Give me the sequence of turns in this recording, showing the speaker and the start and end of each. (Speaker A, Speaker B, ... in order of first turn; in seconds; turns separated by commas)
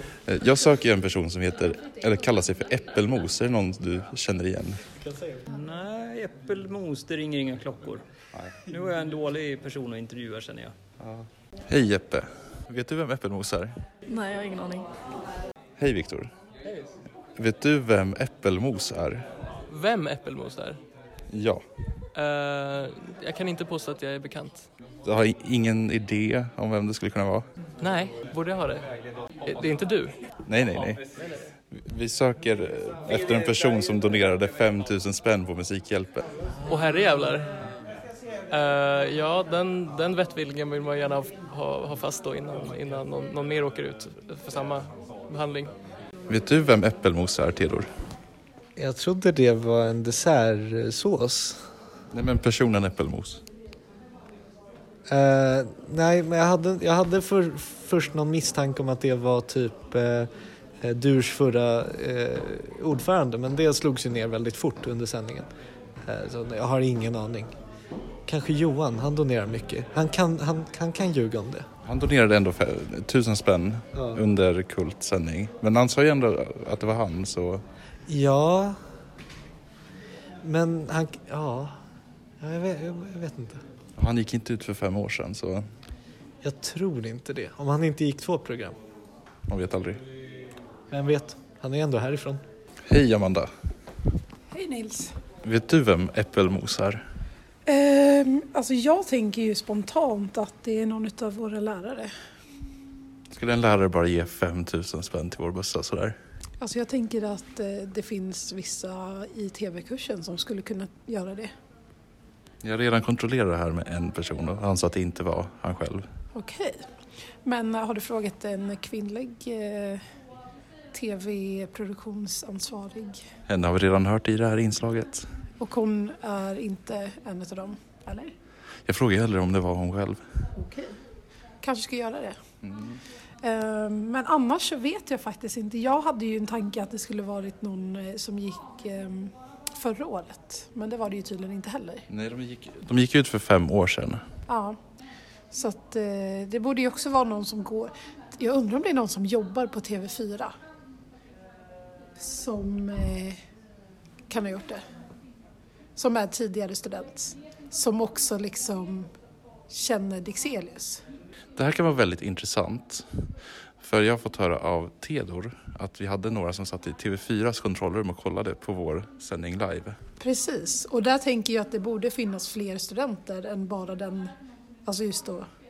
Speaker A: 0.2-4.8, Speaker B: 5.5-8.0, Speaker B: 8.7-10.8, Speaker A: 11.0-13.7, Speaker A: 15.8-16.3, Speaker A: 17.4-19.2, Speaker C: 19.7-20.8, Speaker A: 21.3-21.6, Speaker C: 22.1-24.7, Speaker A: 25.0-27.4, Speaker C: 27.8-28.9, Speaker C: 29.4-30.2, Speaker A: 30.4-31.0, Speaker A: 31.7-36.2, Speaker C: 36.6-37.5, Speaker C: 38.5-45.7, Speaker A: 46.3-47.9, Speaker D: 48.8-51.7, Speaker A: 52.1-53.4, Speaker D: 55.1-65.5, Speaker D: 66.0-67.5, Speaker D: 68.2-71.7, Speaker A: 71.8-77.6, Speaker D: 73.9-74.2, Speaker D: 78.1-78.8, Speaker D: 80.4-81.8, Speaker D: 82.4-83.6, Speaker A: 84.0-85.6, Speaker D: 86.4-88.8, Speaker A: 89.5-90.0, Speaker D: 90.9-92.4, Speaker A: 92.8-93.5, Speaker E: 94.5-95.1, Speaker A: 95.4-97.0, Speaker E: 97.7-102.1, Speaker A: 103.3-106.2, Speaker E: 106.6-111.5, Speaker A: 112.6-116.0, Speaker E: 116.3-116.8, Speaker E: 117.4-120.0, Speaker E: 120.9-123.2, Speaker A: 123.5-125.3, Speaker E: 125.6-128.3, Speaker A: 128.8-130.2, Speaker E: 130.6-130.9, Speaker E: 131.6-132.4, Speaker A: 132.6-133.0, Speaker E: 133.4-142.1, Speaker A: 142.1-144.2, Speaker E: 144.5-144.8, Speaker E: 145.5-150.5, Speaker E: 152.2-153.4, Speaker E: 154.3-154.8, Speaker E: 155.9-159.1, Speaker E: 159.7-161.0, Speaker A: 161.5-163.1, Speaker A: 163.8-170.0, Speaker E: 170.2-174.3, Speaker E: 174.8-175.4